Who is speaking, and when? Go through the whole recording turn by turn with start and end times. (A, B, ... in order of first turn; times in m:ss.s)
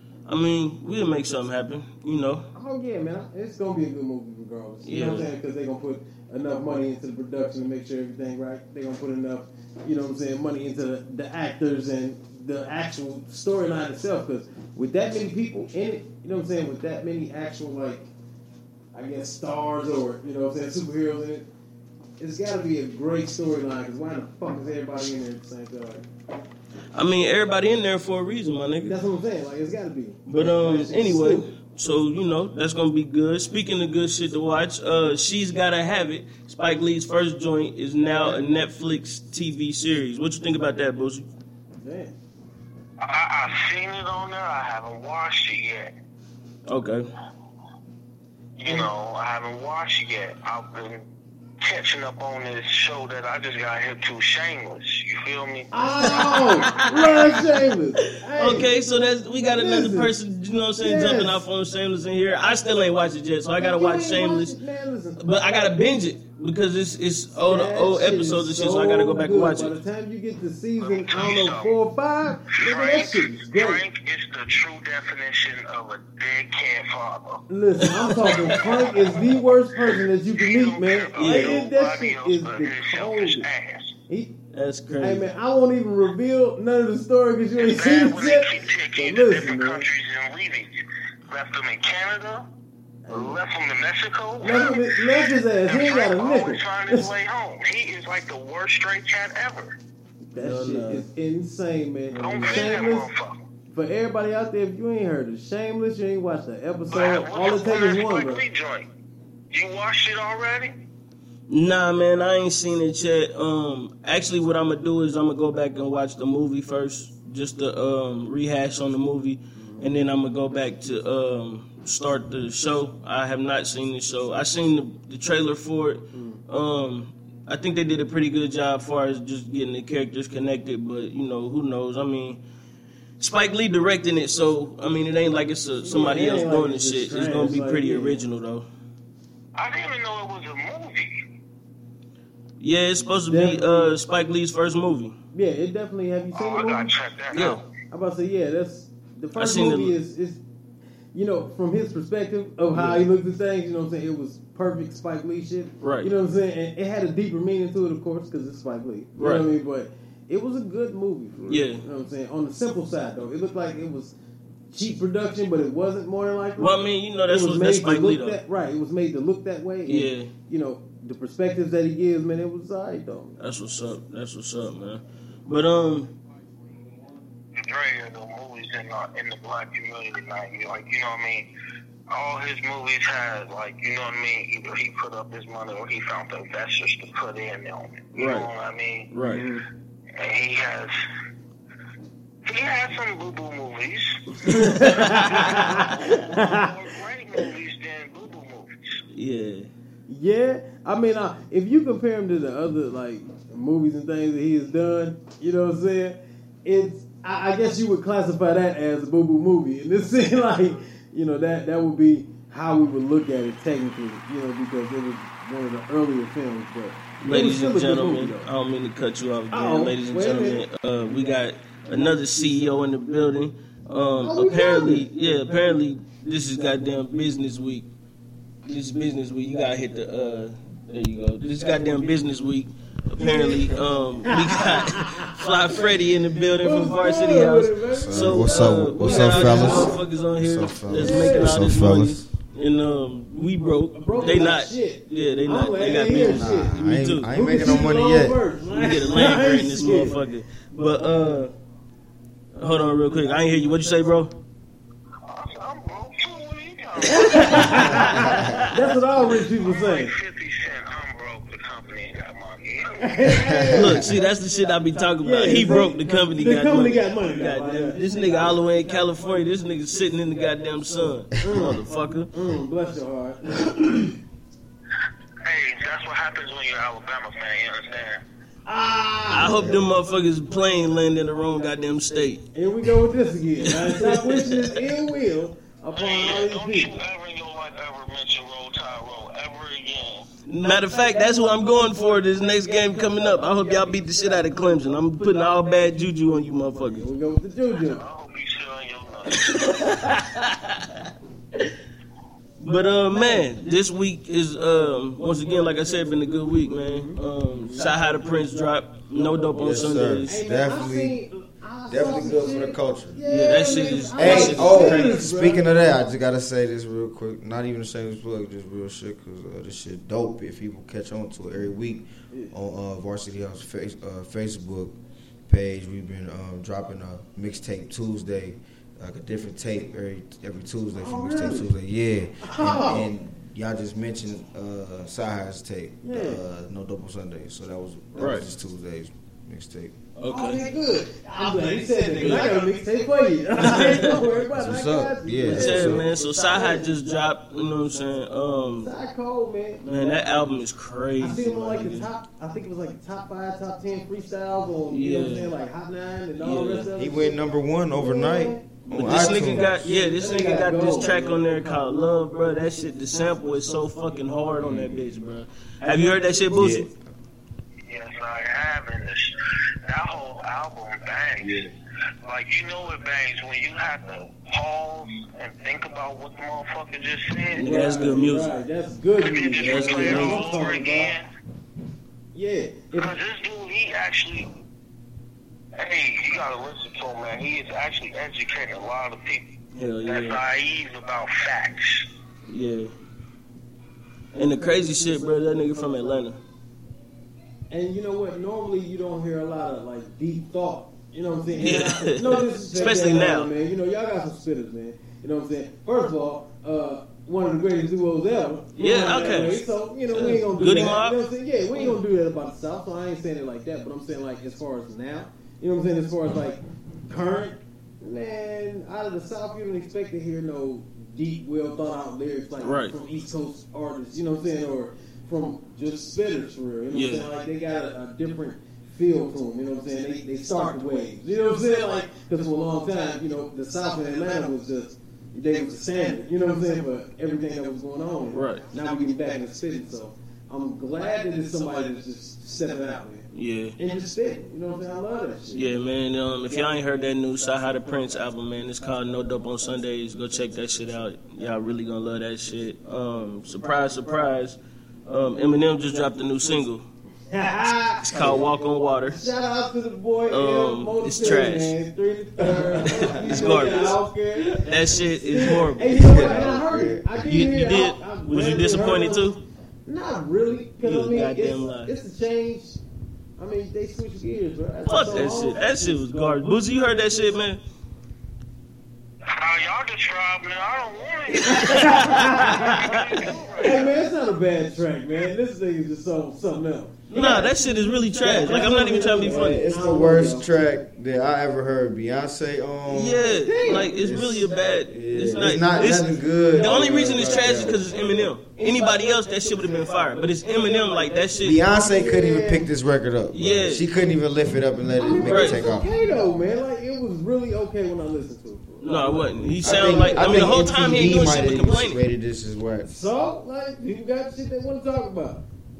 0:00.2-0:02.5 A
0:02.5-0:18.1 B
0:04.8-0:05.3 A
0:18.9-0:21.4 B
0:22.2-0:26.0 B
0:26.9-0:29.0 A
0:28.8-0:31.5 B
0:30.3-0:41.2 A
0:38.1-0:38.4 B
0:41.8-0:42.1 B
0:43.0-0:45.9 C
0:46.6-0:47.1 A
0:48.6-0:51.0 C
0:51.6-0:56.7 C
0:55.7-0:58.7 B
0:56.0-0:57.6 A
0:58.2-1:04.6 A
0:59.4-1:00.1 B
1:00.8-1:01.4 B
1:03.6-1:05.3 B
1:05.2-1:09.8 A
1:07.4-1:13.8 B
1:10.8-1:11.7 C
1:12.5-1:17.4 C
1:17.5-1:23.5 B
1:17.9-1:18.6 A
1:18.4-1:24.0 C
1:21.2-1:21.6 A
1:24.1-1:24.3 B
1:24.5-1:25.3 A
1:25.0-1:29.9 B
1:27.6-1:30.8 C
1:31.3-1:32.5 C
1:33.0-1:33.4 B
1:33.1-1:34.9 C
1:34.4-1:37.1 B
1:35.6-1:39.8 C
1:40.3-1:43.1 B
1:40.4-1:41.0 A
1:42.1-1:42.7 A
1:42.2-1:43.4 C
1:43.7-1:48.4 B
1:46.9-1:48.9 C
1:49.5-1:50.7 C
1:51.5-2:12.4 A
1:59.5-1:59.9 B
2:06.1-2:06.4 B
2:13.2-2:18.6 A
2:15.9-2:18.2 B
2:19.5-2:21.2 C
2:22.6-2:25.2 A
2:23.3-2:23.9 B
2:25.3-2:26.9 B
2:26.3-2:27.7 C
2:27.3-2:27.6 A
2:27.9-2:30.4 B
2:29.4-2:29.9 A
2:31.1-2:44.1 B
2:32.7-2:33.0 A
2:35.8-2:36.1 A
2:39.2-2:39.4 A
2:41.5-2:41.8 A
2:44.7-2:53.4 B
2:46.6-2:48.4 A
2:49.8-2:50.3 A
2:53.4-2:56.1 A
2:57.5-3:01.5 C
3:02.1-3:09.1 C
3:08.1-3:08.5 A
3:09.1-3:09.4 A
3:09.3-3:09.6 B
3:10.2-3:10.9 C
3:12.4-3:14.2 C
3:14.4-3:16.7 B
3:15.0-3:15.6 A
3:15.4-3:18.8 C
3:19.1-3:19.7 A
3:20.1-3:38.5 B
3:37.2-3:47.9 A
3:39.5-3:40.6 B
3:44.2-3:45.1 B
3:48.6-4:07.3 A
3:53.2-3:53.6 B
3:54.2-3:55.4 B
3:56.6-4:00.0 B
3:57.9-4:02.2 D
4:01.0-4:01.6 B
4:03.9-4:10.2 B
4:06.0-4:08.4 D
4:08.7-4:11.5 A
4:12.6-4:14.3 A
4:15.2-4:18.0 C
4:17.1-4:20.1 B
4:17.6-4:18.7 A
4:17.8-4:18.6 D
4:19.6-4:23.1 C
4:23.0-4:24.1 B
4:23.2-4:24.1 D
4:23.7-4:32.3 A
4:25.2-4:28.0 B
4:31.4-4:34.1 B
4:35.4-4:38.2 C
4:38.6-4:39.8 B
4:39.3-4:42.4 A
4:42.5-4:46.9 B
4:43.6-4:44.8 A
4:45.9-4:50.3 C
4:50.4-4:57.0 A
4:56.8-4:58.0 B
4:57.9-4:59.5 C
4:59.4-5:01.0 A
5:02.6-5:10.3 A
5:06.8-5:07.2 B
5:09.6-5:11.2 D
5:10.3-5:15.6 B
5:11.9-5:13.2 D
5:13.3-5:15.2 A
5:14.2-5:24.9 D
5:25.5-5:39.9 D
5:31.0-5:31.7 B
5:32.4-5:33.1 B
5:36.0-5:36.4 B
5:38.2-5:38.4 A
5:40.2-5:40.6 A
5:40.3-5:46.9 B
5:42.2-5:42.6 A
5:43.6-5:44.3 A
5:44.4-5:46.0 D
5:45.5-5:48.9 A
5:48.8-5:50.5 B
5:49.8-5:52.1 A
5:51.2-5:57.4 B
5:54.9-5:55.5 A
5:56.4-5:56.9 A
5:57.0-5:59.8 D
5:58.0-6:01.6 B
5:58.9-6:06.9 A
6:04.6-6:05.0 D
6:06.5-6:07.0 D
6:07.9-6:11.6 C
6:11.4-6:11.7 D
6:12.2-6:17.8 C
6:17.5-6:18.5 A
6:17.6-6:21.1 B
6:19.2-6:21.2 C
6:19.6-6:20.4 A
6:22.3-6:23.1 B
6:22.9-6:24.5 C
6:25.8-6:29.5 C
6:29.7-6:30.4 A
6:30.0-6:32.1 C
6:32.5-6:32.9 A
6:34.3-6:36.4 A
6:37.7-7:23.3 B
6:41.6-6:43.5 A
6:48.8-6:51.2 A
7:02.6-7:02.9 A
7:06.9-7:07.3 A
7:18.3-7:18.6 A
7:23.3-7:23.8 A
7:23.8-7:25.7 B
7:25.5-7:36.9 A
7:37.3-7:38.4 B
7:38.0-7:39.2 A
7:39.0-7:52.8 B
7:40.3-7:41.7 A
7:42.8-7:44.0 A
7:44.5-7:46.2 A
7:45.7-7:47.1 D
7:47.2-7:49.4 A
7:50.8-7:51.9 A
7:53.4-7:56.0 B
7:54.9-7:57.6 A
7:59.3-8:03.9 C
8:01.4-8:03.0 A
8:01.6-8:02.7 B
8:03.6-8:10.6 B
8:07.1-8:09.6 A
8:09.3-8:17.8 D
8:12.9-8:21.6 A
8:13.4-8:14.1 B
8:21.4-8:25.9 D
8:21.8-8:22.7 B
8:23.3-8:23.9 A
8:25.0-8:30.7 B
8:25.2-8:25.7 A
8:28.8-8:32.0 A
8:29.6-8:32.9 D
8:32.8-8:35.4 B